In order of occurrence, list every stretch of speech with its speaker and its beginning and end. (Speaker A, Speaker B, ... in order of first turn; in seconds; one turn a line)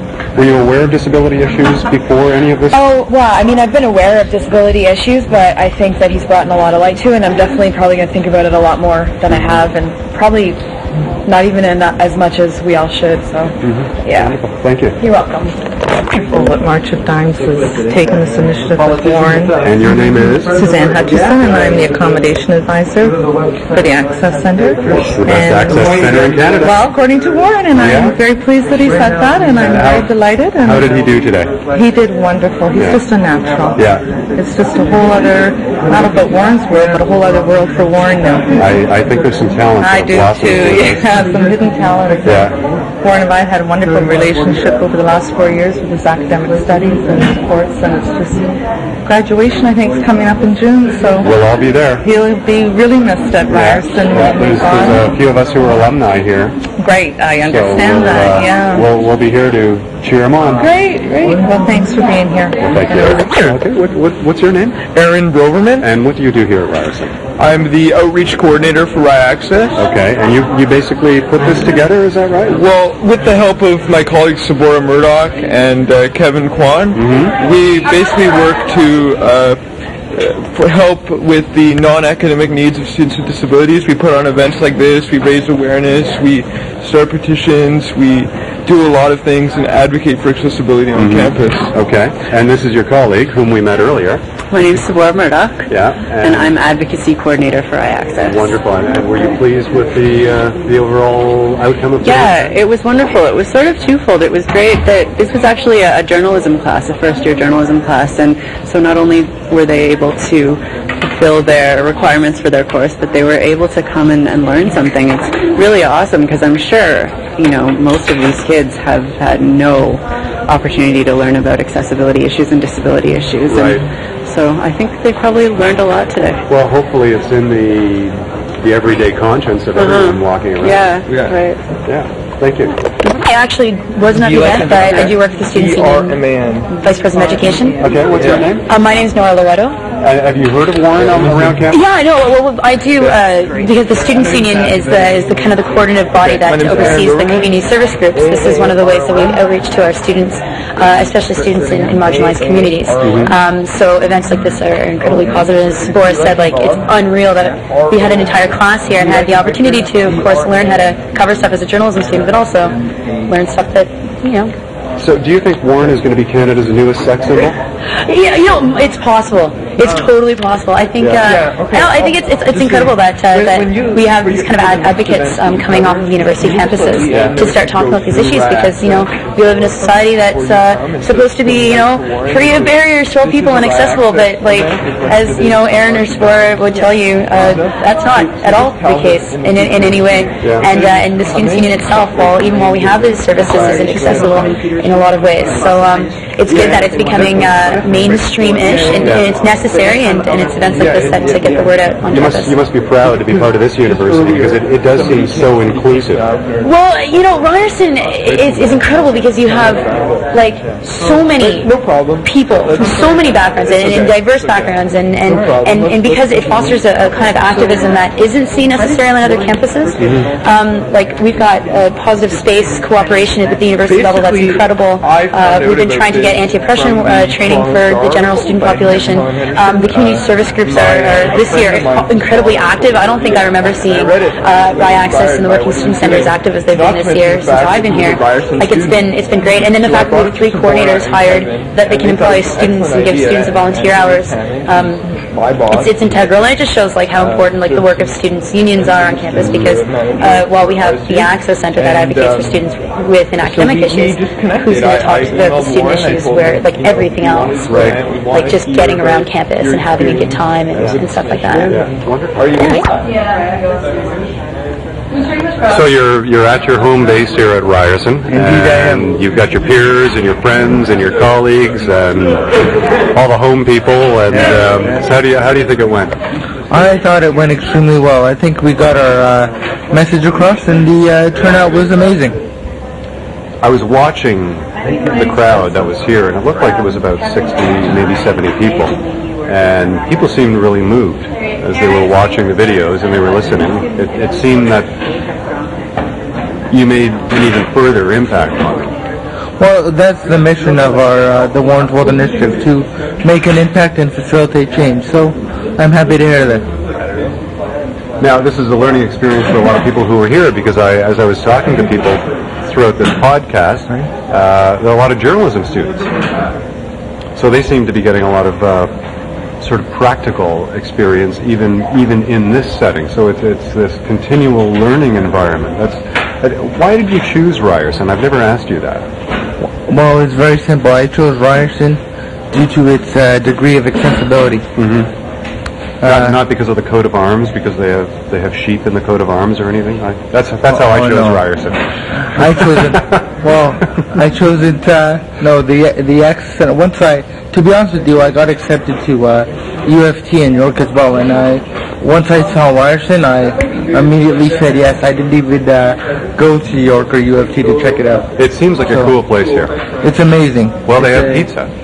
Speaker A: 0.3-2.9
Speaker B: 2.7-10.6
Speaker B: 11.2-14.3
Speaker A: 13.6-15.0
Speaker B: 15.0-15.6
Speaker C: 16.0-31.0
Speaker A: 19.6-21.7
Speaker A: 24.9-26.9
Speaker A: 27.7-28.2
Speaker A: 29.6-30.0
Speaker A: 30.6-31.6
Speaker C: 31.7-38.7
Speaker A: 32.7-33.0
Speaker A: 33.8-34.0
Speaker A: 38.6-41.3
Speaker C: 39.8-51.3
Speaker A: 42.2-42.5
Speaker A: 51.2-52.1
Speaker C: 52.0-55.1
Speaker A: 53.5-56.6
Speaker C: 56.7-58.9
Speaker A: 57.4-60.7
Speaker C: 60.6-63.3
Speaker A: 62.6-64.8
Speaker D: 64.9-65.9
Speaker A: 65.8-67.2
Speaker D: 67.4-69.8
Speaker A: 69.8-72.6
Speaker D: 72.5-79.6
Speaker A: 76.9-77.3
Speaker D: 80.1-91.7
Speaker A: 90.9-94.2
Speaker E: 94.5-98.6
Speaker A: 95.7-96.6
Speaker A: 98.2-102.5
Speaker E: 102.0-126.4
Speaker A: 123.5-123.8
Speaker A: 126.5-131.0
Speaker E: 129.8-131.6
Speaker D: 131.1-131.4
Speaker A: 131.9-132.8
Speaker F: 133.0-137.8
Speaker D: 134.1-136.7
Speaker A: 137.8-138.7
Speaker D: 138.1-138.6
Speaker F: 138.6-139.8
Speaker A: 140.0-141.8
Speaker F: 141.7-164.5
Speaker D: 144.6-144.9
Speaker D: 146.2-147.5
Speaker D: 148.2-149.1
Speaker D: 151.4-153.3
Speaker A: 153.0-153.3
Speaker A: 165.0-167.6
Speaker F: 167.9-202.7
Speaker A: 171.0-171.3
Speaker D: 171.3-194.5
Speaker A: 177.1-177.4
Speaker D: 196.5-197.8
Speaker D: 198.4-199.4
Speaker D: 200.3-201.7
Speaker A: 202.1-206.4
Speaker D: 203.3-206.6
Speaker F: 206.6-261.8
Speaker D: 208.2-218.1
Speaker D: 218.8-220.2
Speaker D: 223.8-246.6
Speaker D: 247.2-248.2
Speaker D: 248.7-252.6
Speaker D: 253.4-263.0
Speaker A: 257.7-258.0
Speaker A: 261.7-262.6
Speaker F: 262.6-262.9
Speaker A: 265.6-272.5
Speaker G: 268.3-269.1
Speaker A: 273.1-276.1
Speaker G: 276.7-282.4
Speaker A: 283.6-294.9
Speaker E: 288.6-289.4
Speaker E: 294.9-295.9
Speaker A: 296.7-298.9
Speaker G: 299.6-306.6
Speaker A: 308.2-316.1
Speaker A: 317.4-318.9
Speaker A: 319.6-329.1
Speaker G: 329.6-332.0
Speaker G: 332.5-334.7
Speaker A: 334.8-335.1
Speaker G: 336.0-336.4
Speaker A: 336.0-341.9
Speaker G: 340.7-341.4
Speaker G: 342.2-359.1
Speaker A: 342.4-342.7
Speaker A: 358.4-359.8
Speaker G: 360.0-361.5
Speaker A: 360.9-361.7